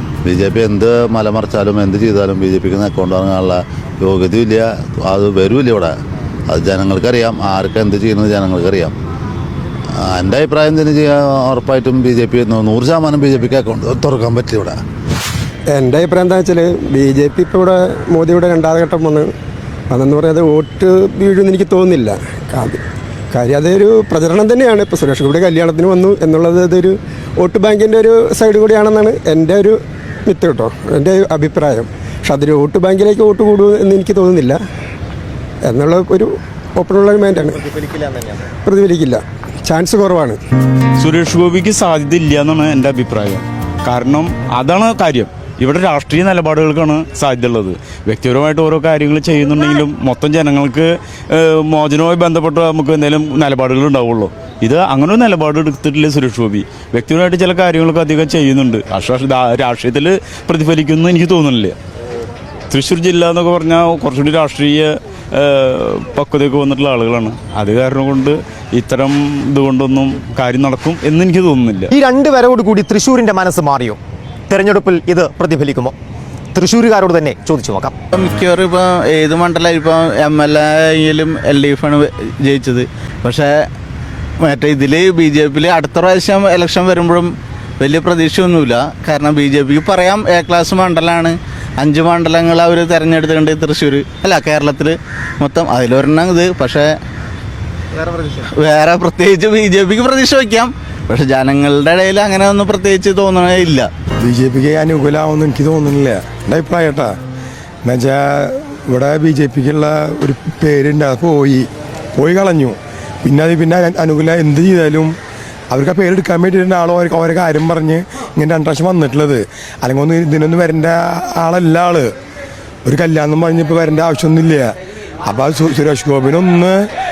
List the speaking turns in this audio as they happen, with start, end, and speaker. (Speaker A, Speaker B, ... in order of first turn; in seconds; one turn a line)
Speaker A: 0.2-6.0
Speaker A: 6.5-8.9
Speaker A: 10.0-14.8
Speaker B: 15.7-19.3
Speaker B: 19.9-34.6
Speaker B: 35.6-37.8
Speaker C: 38.0-38.3
Speaker B: 38.5-40.4
Speaker D: 41.0-61.8
Speaker D: 62.7-71.9
Speaker C: 71.9-76.0
Speaker C: 76.5-78.0
Speaker E: 78.2-83.5
Speaker E: 84.4-96.9
Speaker E: 98.0-103.9
Speaker F: 104.2-107.2
Speaker F: 107.8-115.2
Speaker F: 115.7-122.1
Speaker F: 122.9-124.7
Speaker F: 125.2-126.9